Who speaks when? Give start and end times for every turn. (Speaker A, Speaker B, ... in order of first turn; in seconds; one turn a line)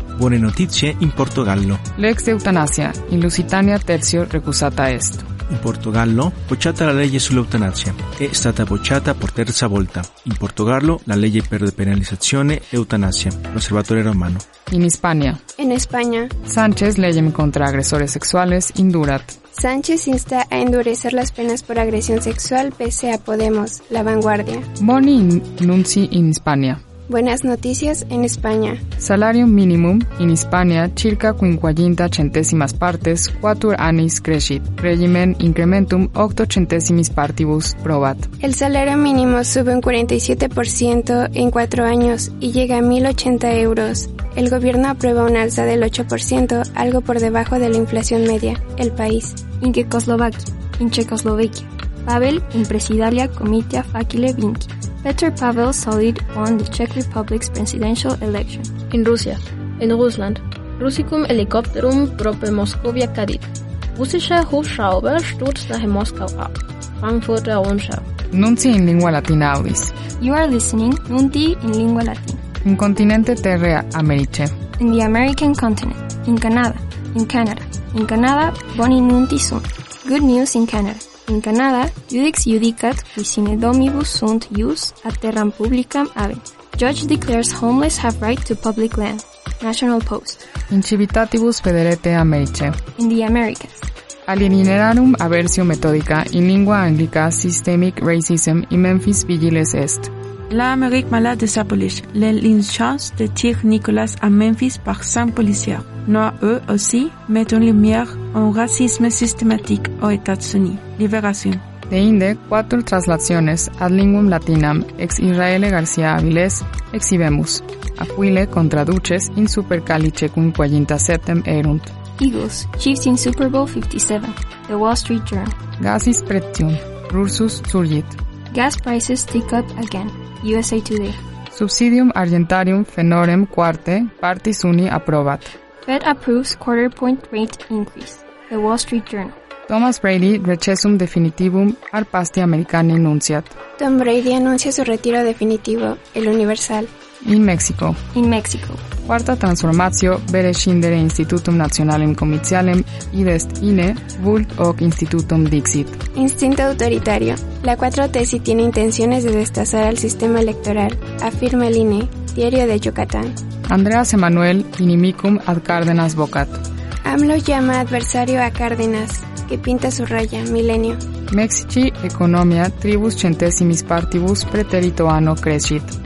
Speaker A: 0.1-1.8
Speaker B: 2.0-5.3
Speaker A: 5.5-14.4
Speaker B: 14.7-15.4
Speaker C: 15.6-16.3
Speaker B: 16.4-19.4
Speaker C: 19.5-24.7
Speaker B: 24.8-26.8
Speaker C: 27.1-28.8
Speaker B: 29.0-38.3
Speaker C: 38.4-49.4
Speaker D: 49.6-58.7
Speaker E: 58.9-68.0
Speaker B: 68.3-69.9
Speaker D: 70.2-72.4
Speaker B: 72.6-74.5
Speaker D: 74.8-90.5
Speaker B: 90.7-92.8
Speaker D: 93.0-93.9
Speaker B: 94.3-100.1
Speaker F: 100.5-111.6
Speaker B: 111.9-121.9
Speaker D: 122.2-125.5
Speaker B: 125.8-128.2
Speaker D: 128.5-131.2
Speaker B: 131.5-135.5
Speaker D: 135.8-139.3
Speaker B: 139.7-143.5
Speaker C: 143.8-146.9
Speaker B: 147.2-148.0
Speaker D: 148.1-148.8
Speaker B: 149.1-156.0
Speaker C: 156.2-163.3
Speaker B: 163.7-166.6
Speaker C: 167.0-171.0
Speaker B: 171.3-175.9